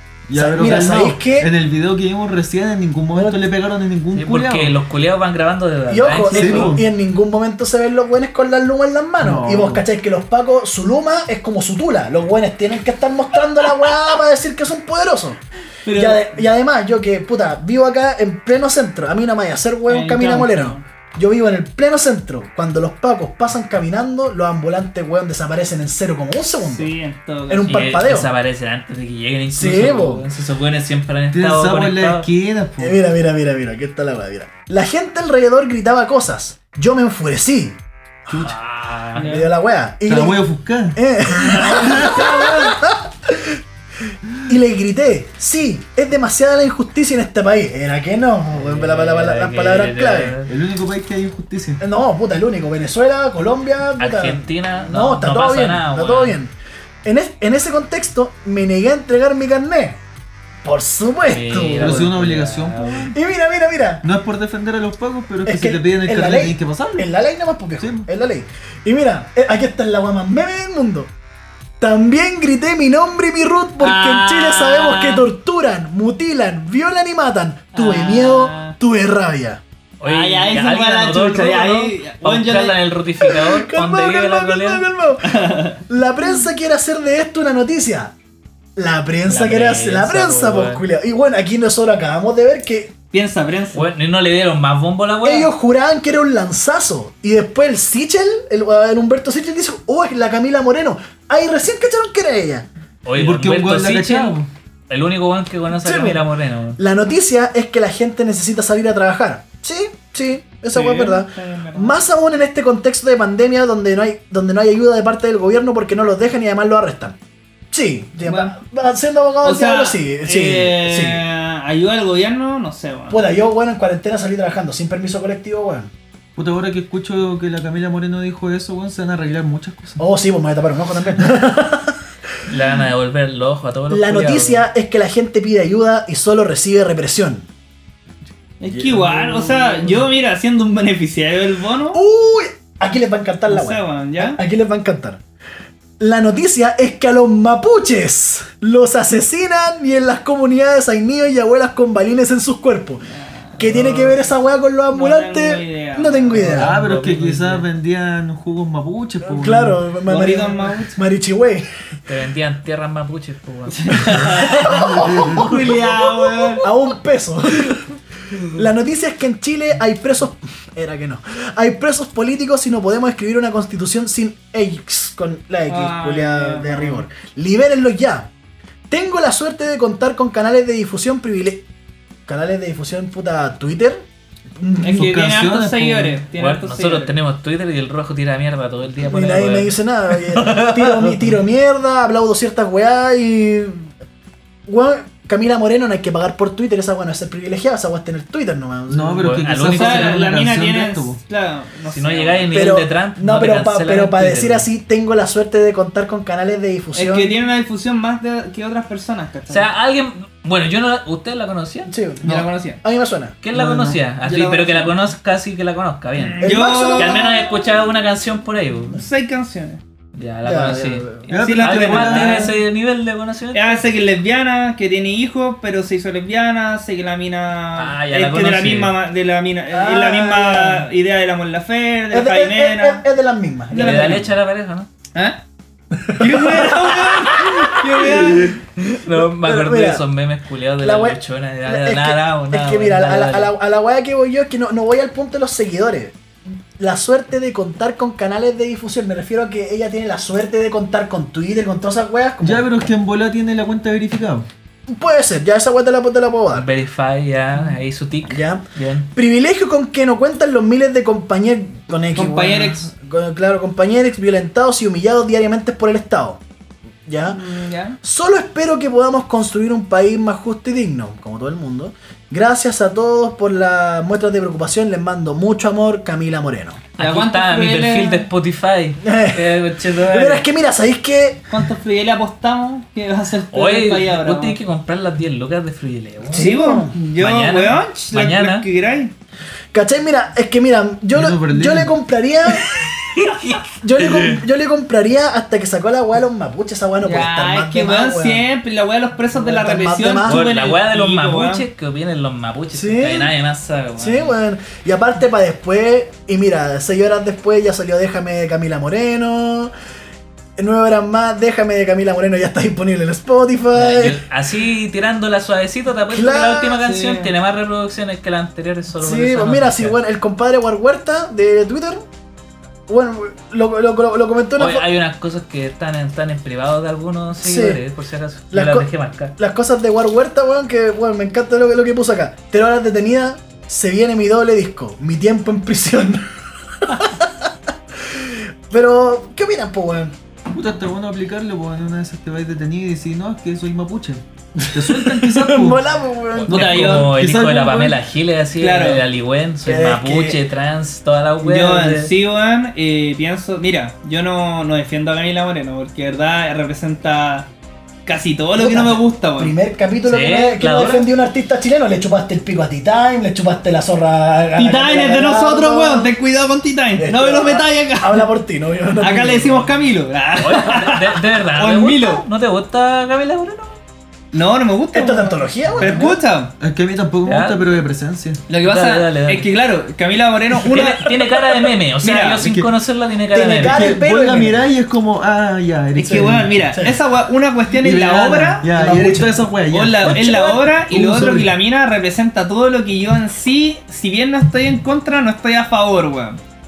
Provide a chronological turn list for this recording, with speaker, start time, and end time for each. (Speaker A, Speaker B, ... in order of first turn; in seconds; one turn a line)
Speaker A: 0.3-4.8
Speaker B: 0.3-1.5
Speaker B: 3.1-3.4
Speaker C: 4.1-6.8
Speaker B: 5.9-26.9
Speaker A: 6.3-6.9
Speaker A: 9.2-9.8
Speaker D: 15.8-16.4
Speaker D: 19.9-20.8
Speaker D: 26.6-27.9
Speaker B: 27.5-28.3
Speaker C: 27.7-32.3
Speaker B: 29.5-30.2
Speaker A: 31.3-33.0
Speaker B: 32.8-37.8
Speaker C: 38.3-39.4
Speaker D: 39.1-39.5
Speaker B: 39.2-43.6
Speaker A: 40.0-41.0
Speaker D: 41.7-42.7
Speaker B: 44.4-50.3
Speaker C: 48.5-50.5
Speaker A: 50.5-51.8
Speaker B: 51.8-56.5
Speaker C: 54.0-56.4
Speaker B: 57.0-60.0
Speaker B: 60.6-62.1
Speaker C: 61.3-63.1
Speaker A: 61.7-63.1
Speaker B: 63.1-64.0
Speaker A: 64.0-67.1
Speaker B: 65.4-71.1
Speaker A: 67.8-68.1
Speaker B: 71.8-79.6
Speaker D: 73.8-75.2
Speaker D: 77.7-78.8
Speaker C: 80.0-84.8
Speaker D: 80.0-82.8
Speaker B: 83.2-88.1
Speaker D: 85.2-85.8
Speaker B: 88.8-92.9
Speaker C: 89.2-90.8
Speaker D: 93.1-93.8
Speaker C: 93.7-95.5
Speaker B: 95.2-102.7
Speaker C: 103.0-104.4
Speaker A: 103.1-104.5
Speaker C: 104.9-106.8
Speaker B: 105.7-106.2
Speaker B: 106.8-117.2
Speaker D: 110.7-112.0
Speaker B: 117.7-121.2
Speaker D: 118.2-118.5
Speaker D: 119.4-123.3
Speaker B: 123.1-125.9
Speaker A: 126.3-130.0
Speaker B: 130.0-132.0
Speaker C: 132.5-134.7
Speaker B: 133.9-137.5
Speaker D: 138.6-142.0
Speaker B: 138.7-140.0
Speaker B: 141.9-145.2
Speaker D: 143.5-144.4
Speaker B: 146.0-153.0
Speaker D: 153.1-154.3
Speaker B: 153.6-156.7
Speaker D: 154.9-156.6
Speaker C: 156.3-157.7
Speaker A: 156.4-159.8
Speaker B: 159.2-161.7
Speaker D: 160.1-161.0
Speaker C: 162.1-164.3
Speaker D: 163.7-166.7
Speaker B: 164.1-167.9
Speaker A: 165.1-165.4
Speaker B: 168.5-178.3
Speaker D: 175.7-177.0
Speaker B: 178.9-181.7
Speaker B: 182.3-184.0
Speaker B: 184.6-185.1
Speaker D: 184.8-187.2
Speaker A: 184.9-186.2
Speaker C: 186.4-191.4
Speaker B: 189.0-193.9
Speaker B: 194.7-199.5
Speaker A: 198.9-201.2
Speaker C: 199.2-200.4
Speaker D: 199.7-202.7
Speaker C: 201.9-204.7
Speaker B: 202.5-207.3
Speaker D: 206.9-209.7
Speaker C: 209.5-211.9
Speaker B: 211.8-213.3
Speaker D: 212.2-212.8
Speaker C: 213.4-219.0
Speaker A: 213.5-214.9
Speaker D: 216.2-217.3
Speaker B: 216.4-217.5
Speaker D: 218.9-219.8
Speaker C: 220.1-223.9
Speaker B: 220.4-221.3
Speaker D: 221.3-222.5
Speaker A: 221.3-222.5
Speaker D: 223.5-233.0
Speaker C: 227.8-228.9
Speaker B: 229.7-230.9
Speaker B: 232.1-234.3
Speaker D: 233.7-234.2
Speaker C: 233.7-234.9
Speaker D: 235.1-235.4
Speaker B: 235.9-240.0
Speaker D: 236.2-238.6
Speaker C: 239.0-243.5
Speaker B: 240.8-246.2
Speaker B: 246.8-252.7
Speaker A: 252.4-254.5
Speaker B: 254.9-256.7
Speaker C: 256.5-259.1
Speaker B: 258.3-266.4
Speaker D: 262.1-262.9
Speaker B: 267.1-267.4
Speaker D: 267.3-268.0
Speaker B: 268.0-276.8
Speaker D: 277.0-278.2
Speaker C: 277.0-280.4
Speaker B: 279.0-281.4
Speaker D: 281.5-284.6
Speaker C: 283.5-286.5
Speaker B: 286.2-287.0
Speaker D: 286.3-289.1
Speaker C: 287.2-288.6
Speaker B: 289.7-292.9
Speaker A: 291.1-291.9
Speaker C: 292.8-294.4
Speaker B: 293.7-298.5
Speaker D: 297.0-301.7
Speaker B: 299.3-300.5
Speaker C: 300.2-304.4
Speaker B: 302.7-303.3
Speaker B: 304.0-309.7
Speaker B: 310.6-314.2
Speaker C: 313.7-320.0
Speaker B: 316.1-316.8
Speaker D: 316.8-317.3
Speaker B: 318.9-322.1
Speaker B: 322.9-324.8
Speaker C: 324.6-329.3
Speaker B: 327.4-327.8
Speaker B: 328.5-336.2
Speaker B: 336.8-337.5
Speaker B: 338.1-340.1
Speaker A: 340.5-345.8
Speaker B: 344.6-347.0
Speaker C: 346.3-352.1
Speaker A: 346.5-348.0
Speaker D: 346.5-347.1
Speaker D: 348.6-349.0
Speaker B: 349.6-350.4
Speaker D: 351.4-357.5
Speaker D: 358.1-359.5
Speaker B: 358.6-366.1
Speaker C: 360.0-361.1
Speaker D: 364.6-368.3
Speaker B: 367.0-369.7
Speaker D: 369.0-372.2
Speaker C: 370.4-373.8
Speaker D: 374.3-376.5
Speaker B: 374.9-376.2
Speaker A: 376.6-378.4
Speaker C: 377.2-377.8
Speaker D: 378.5-382.4
Speaker C: 378.6-379.5
Speaker C: 380.6-383.8
Speaker A: 382.4-382.7
Speaker B: 383.3-384.7
Speaker A: 383.6-386.8
Speaker D: 386.0-389.1
Speaker B: 386.0-387.0
Speaker A: 387.8-391.5
Speaker B: 388.7-390.4
Speaker D: 389.7-396.4